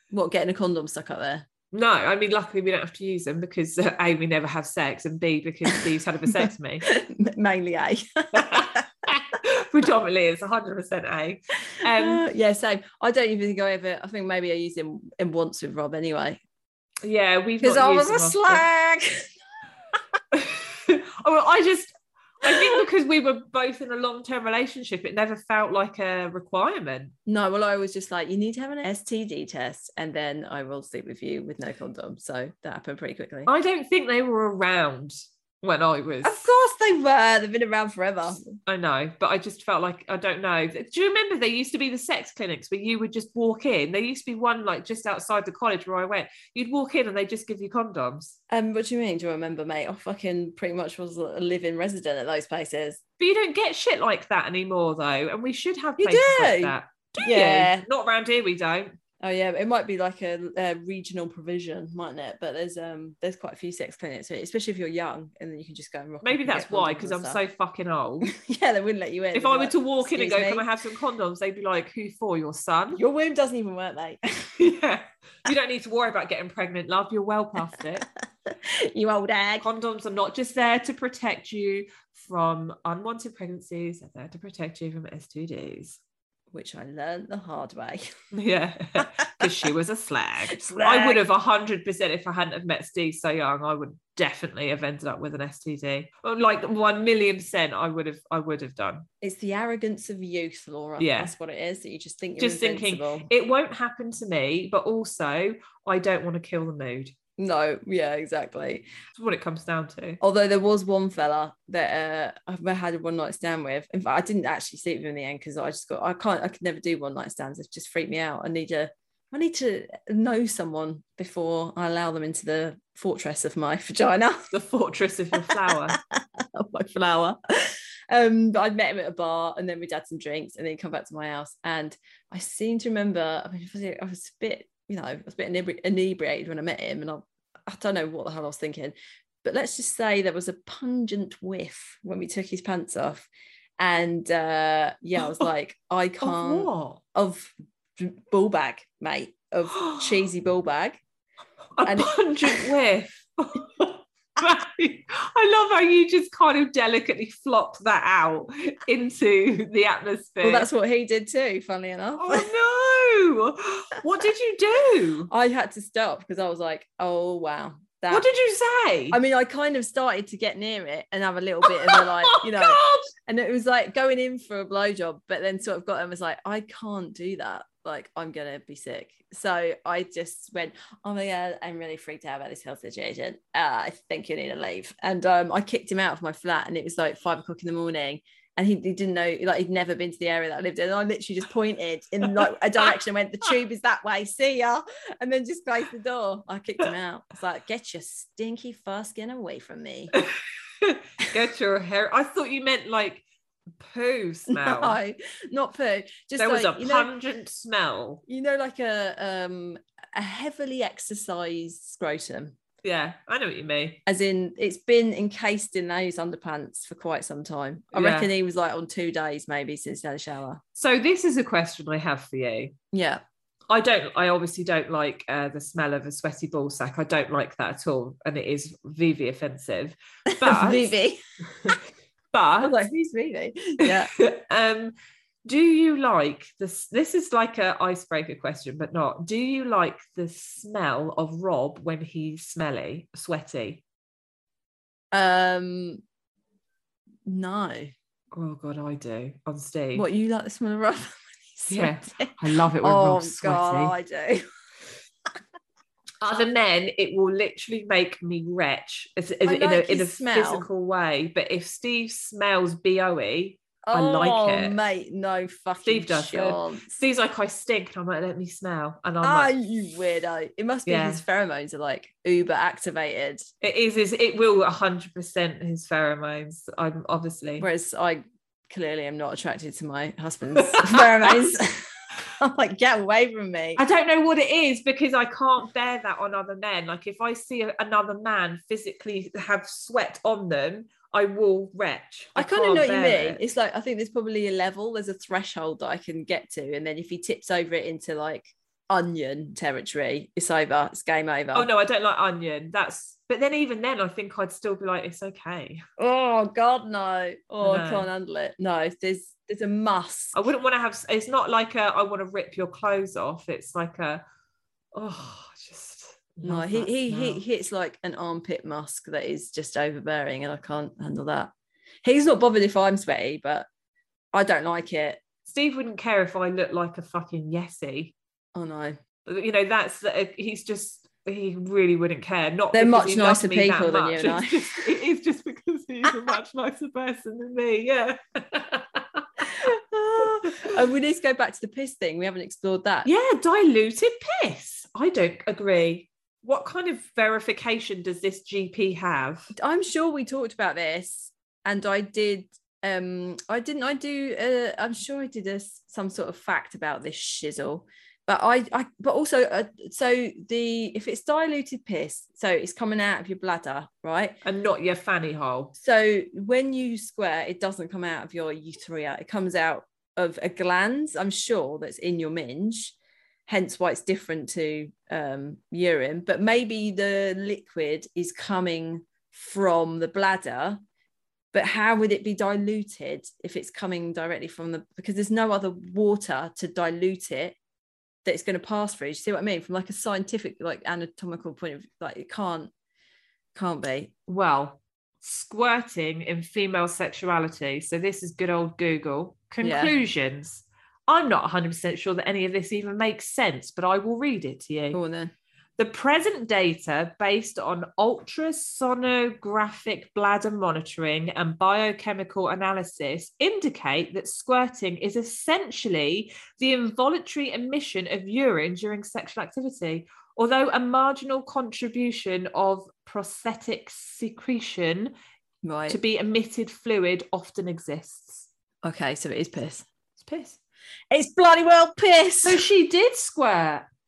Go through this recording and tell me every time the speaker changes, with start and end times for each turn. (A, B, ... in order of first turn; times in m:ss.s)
0:00.1-0:01.5 A
0:01.7-0:06.9 B
0:06.9-0:08.8 A
0:08.3-0:12.2 B
0:11.9-0:16.4 A
0:17.0-0:18.6 B
0:17.6-0:19.3 A
0:20.3-0:27.2 B
0:27.3-0:33.5 A
0:33.5-0:36.5 B
0:36.2-0:38.6 A
0:38.7-0:48.4 B
0:48.5-0:53.0 A
0:53.2-0:59.0 B
0:56.0-0:57.8 A
0:59.2-1:07.4 A
1:06.2-1:08.3 B
1:08.3-1:10.6 A
1:09.3-1:13.0 B
1:12.9-1:14.5 A
1:14.6-1:18.1 B
1:18.5-1:19.6 A
1:19.6-1:26.0 B
1:26.5-1:28.1 A
1:28.3-1:39.1 B
1:30.6-1:31.2 A
1:39.2-1:43.3 A
1:41.0-1:41.3 B
1:42.4-1:47.1 B
1:47.4-1:48.9 A
1:49.1-1:50.2 B
1:50.2-2:04.5 A
2:04.5-2:06.0 B
2:05.9-2:23.3 A
2:23.8-2:31.0 A
2:26.2-2:27.0 B
2:31.8-2:40.7 B
2:31.8-2:32.6 A
2:40.4-2:42.5 A
2:42.2-2:45.3 B
2:45.3-2:48.3 A
2:48.1-2:49.2 B
2:49.1-3:20.1 A
2:51.7-2:53.1 B
3:20.8-3:23.2 B
3:23.8-3:25.0 B
3:24.5-3:27.1 A
3:26.4-3:28.2 B
3:28.3-3:32.6 A
3:32.8-3:34.0 B
3:34.1-3:40.6 A
3:37.9-3:38.3 B
3:40.8-3:42.8 B
3:42.9-3:43.2 A
3:43.7-3:50.9 B
3:50.4-3:51.8 A
3:52.3-3:52.8 B
3:52.6-3:54.1 A
3:53.8-3:54.9 B
3:55.4-4:03.8 B
4:05.1-4:06.0 A
4:07.3-4:07.9 A
4:08.3-4:10.1 B
4:10.0-4:14.4 A
4:11.7-4:14.0 B
4:16.2-4:24.8 B
4:19.4-4:20.7 A
4:23.8-4:26.9 A
4:25.8-4:29.5 B
4:29.2-4:33.4 A
4:30.9-4:31.2 B
4:33.6-4:37.7 B
4:37.6-4:43.8 A
4:43.8-4:53.4 B
4:52.4-5:01.7 A
5:01.5-5:05.8 B
5:06.0-5:10.4 A
5:07.6-5:08.1 B
5:10.4-5:14.2 B
5:14.9-5:17.4 B
5:16.4-5:21.5 A
5:22.0-5:23.7 A
5:24.3-5:25.2 A
5:25.5-5:28.1 B
5:28.6-5:29.0 A
5:29.2-5:39.4 B
5:32.7-5:34.7 A
5:39.6-5:43.1 A
5:43.0-5:49.5 B
5:49.6-6:04.4 A
6:04.4-6:05.7 B
6:05.8-6:13.0 A
6:13.5-6:20.8 A
6:21.5-6:27.6 A
6:28.2-6:32.7 A
6:33.6-6:34.1 A
6:34.3-6:45.0 B
6:39.6-6:39.9 A
6:44.9-6:45.3 A
6:45.8-7:05.1 B
7:05.6-7:06.0 A
7:05.9-7:08.5 B
7:08.8-7:09.9 A
7:10.2-7:10.6 B
7:11.1-7:12.6 A
7:12.4-7:13.9 B